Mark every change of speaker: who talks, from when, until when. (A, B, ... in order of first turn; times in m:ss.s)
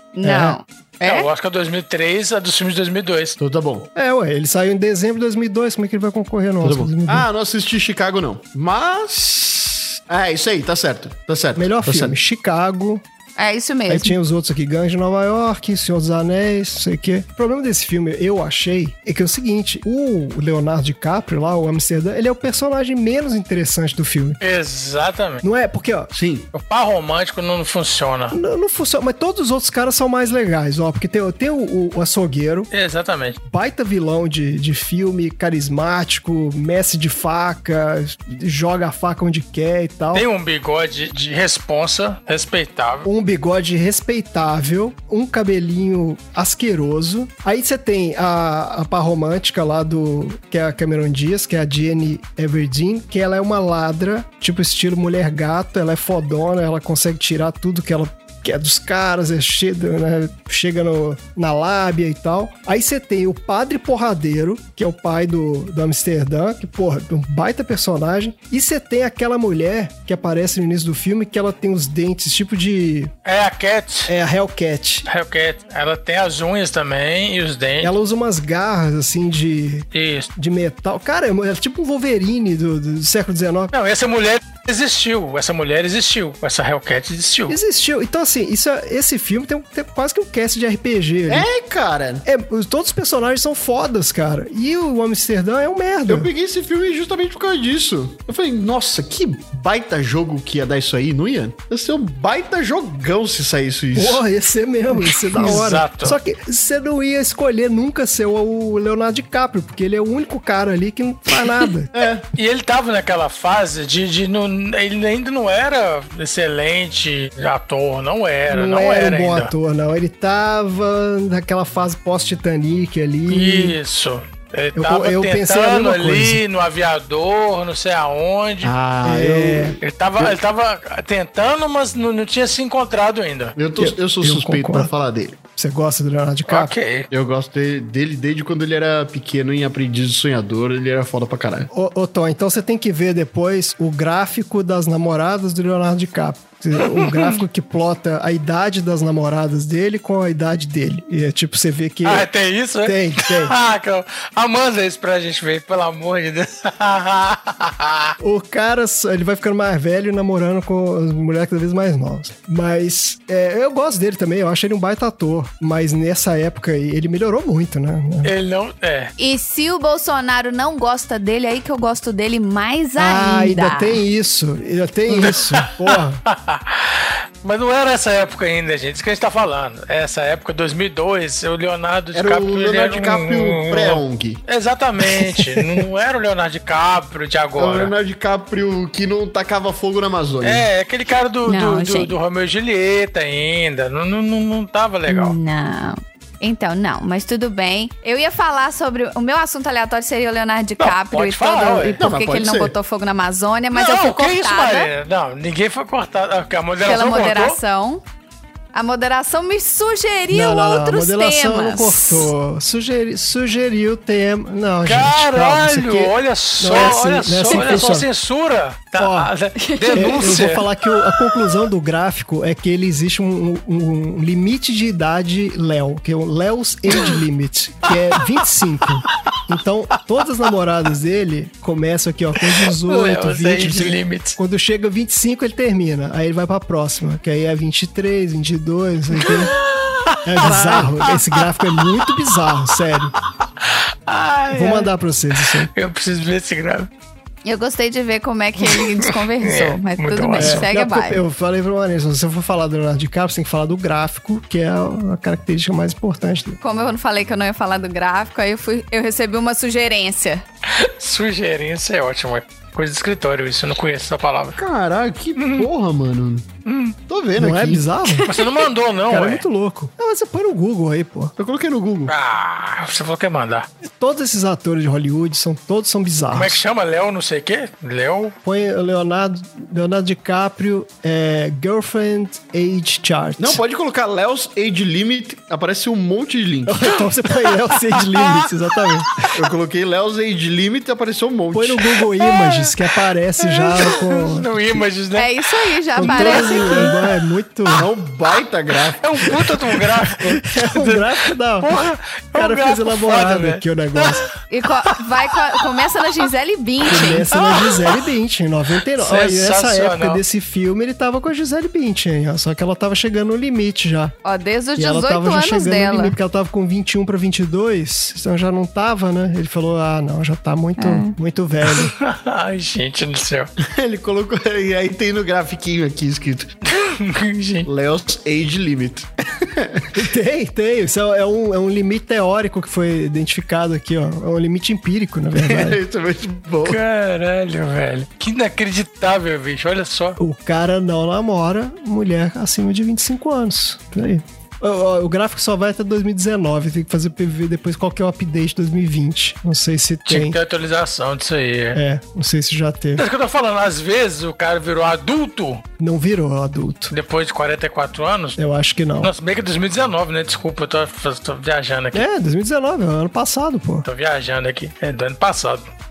0:00.2-0:01.3 A
0:00.2-0:00.6 B
0:01.0-0:03.4 C
0:03.4-0:03.9 D
0:04.0-0:07.3 B
0:06.6-0:12.2 D
0:11.6-0:13.0 B
0:13.4-0:14.2 A
0:13.9-0:24.4 B
0:24.4-0:25.4 C
0:25.4-0:26.1 B
0:26.1-0:26.5 D
0:26.5-0:28.4 C
0:28.3-0:32.7 B
0:32.7-0:33.4 C
0:33.5-0:40.3 B
0:40.1-0:43.1 C
0:43.0-1:13.1 B
1:13.2-1:14.1 C
1:14.1-1:15.1 B
1:15.1-1:17.9 C
1:17.8-1:23.7 B
1:19.9-1:20.3 C
1:23.7-1:27.6 C
1:27.5-1:31.5 B
1:31.3-1:32.2 D
1:32.2-1:36.3 B
1:36.1-1:44.2 D
1:43.9-1:51.9 B
1:45.1-1:46.2 C
1:51.9-1:52.2 D
1:52.4-1:59.5 C
1:58.5-2:03.8 B
2:03.3-2:08.7 C
2:04.8-2:06.4 B
2:08.6-2:10.4 D
2:09.0-2:09.8 B
2:09.8-2:13.6 C
2:13.6-2:15.4 D
2:13.8-2:14.9 B
2:15.6-2:16.7 B
2:16.5-2:17.1 C
2:17.1-2:21.7 D
2:21.7-2:32.3 B
2:26.8-2:27.3 C
2:32.0-2:38.2 C
2:32.8-2:33.6 B
2:38.2-2:48.3 B
2:48.2-2:49.1 C
2:49.2-2:54.0 A
2:53.0-2:56.2 B
2:55.2-3:07.9 C
3:02.1-3:04.4 D
3:07.6-3:10.7 D
3:10.4-3:15.4 C
3:11.5-3:12.1 A
3:15.1-3:24.9 A
3:20.8-3:22.0 C
3:22.0-3:22.8 D
3:23.7-3:27.6 C
3:26.8-3:28.0 A
3:28.7-3:32.3 A
3:30.3-3:38.1 B
3:34.8-3:40.7 C
3:39.0-3:39.3 B
3:39.6-3:40.2 A
3:39.9-3:59.6 B
3:52.7-3:54.4 C
3:59.2-4:01.4 C
4:00.2-4:03.2 B
4:00.4-4:00.9 D
4:03.6-4:04.9 C
4:04.5-4:05.7 B
4:05.6-4:06.9 C
4:07.4-4:11.2 A
4:08.6-4:10.7 C
4:10.4-4:16.6 B
4:16.6-4:20.4 A
4:20.7-4:24.6 C
4:24.6-4:26.5 D
4:25.4-4:25.7 C
4:26.7-4:27.0 C
4:27.1-4:27.8 D
4:27.4-4:28.3 B
4:28.2-4:29.4 C
4:29.1-4:31.3 B
4:31.4-4:32.1 D
4:32.1-4:33.7 C
4:33.8-4:36.6 B
4:36.3-4:38.4 C
4:38.4-4:43.6 B
4:43.4-4:46.9 D
4:46.7-4:49.3 B
4:48.1-4:48.5 C
4:49.4-4:51.8 D
4:51.5-4:54.8 B
4:52.2-4:52.8 C
4:53.4-4:57.1 C
4:55.2-4:56.9 A
4:56.0-4:57.9 B
4:57.8-4:59.4 D
4:59.0-5:05.0 C
5:00.2-5:01.8 B
5:02.3-5:04.3 B
5:04.5-5:07.3 A
5:06.8-5:14.1 B
5:07.3-5:08.0 C
5:09.0-5:10.2 C
5:14.2-5:16.2 A
5:14.8-5:21.9 B
5:20.8-5:21.2 A
5:21.7-5:23.5 C
5:23.6-5:26.5 D
5:26.7-5:27.7 C
5:27.6-5:30.0 D
5:29.9-5:35.8 B
5:35.4-5:36.8 D
5:36.6-5:40.2 C
5:40.2-5:50.4 B
5:50.1-5:51.8 C
5:51.7-5:53.0 B
5:53.0-5:55.6 C
5:55.8-5:56.9 B
5:56.9-5:58.4 C
5:58.4-5:59.1 B
5:59.0-6:02.0 C
6:01.9-6:03.9 B
6:03.8-6:05.7 C